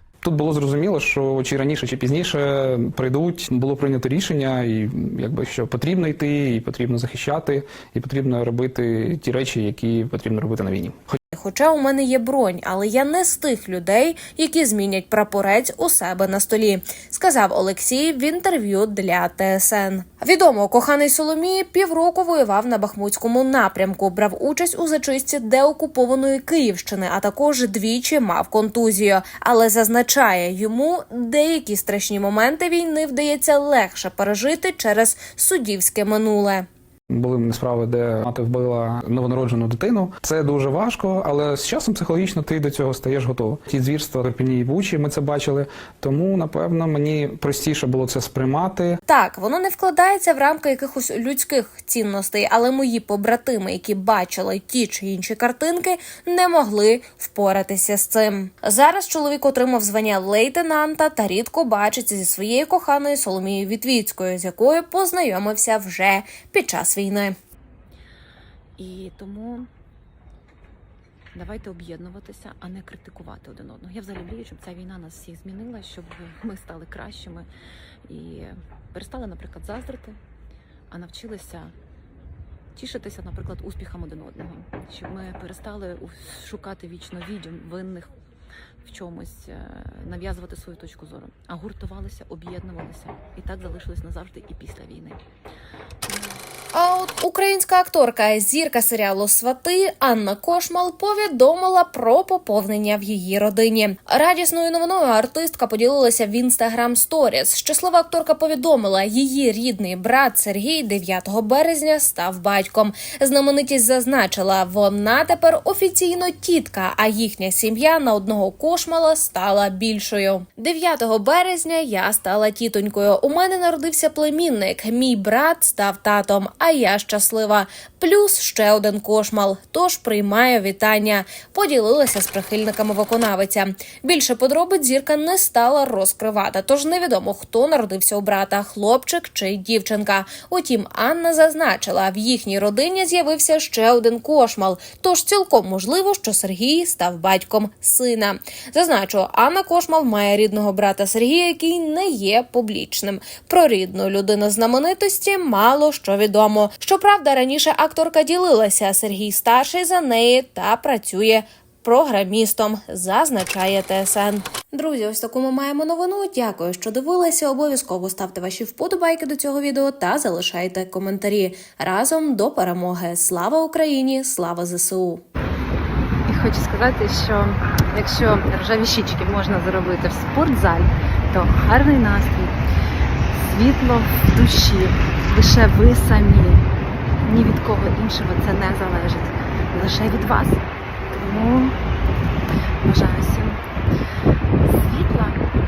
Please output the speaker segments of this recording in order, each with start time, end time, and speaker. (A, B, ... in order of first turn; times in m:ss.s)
0:00.2-0:11.2 A
0:11.3-0:36.6 B
0:37.1-0:49.0 A
0:49.1-1:07.3 B
1:08.8-1:09.7 C
1:11.3-1:17.5 C
1:18.1-1:20.2 C
1:20.9-1:21.7 C
1:22.8-1:28.1 C
1:28.8-1:35.2 C
1:36.7-2:55.2 B
2:56.3-3:02.6 D
3:03.4-3:06.6 D
3:07.2-3:10.6 D
3:11.2-3:11.7 D
3:12.8-3:13.6 D
3:14.7-3:15.4 D
3:14.7-3:15.1 C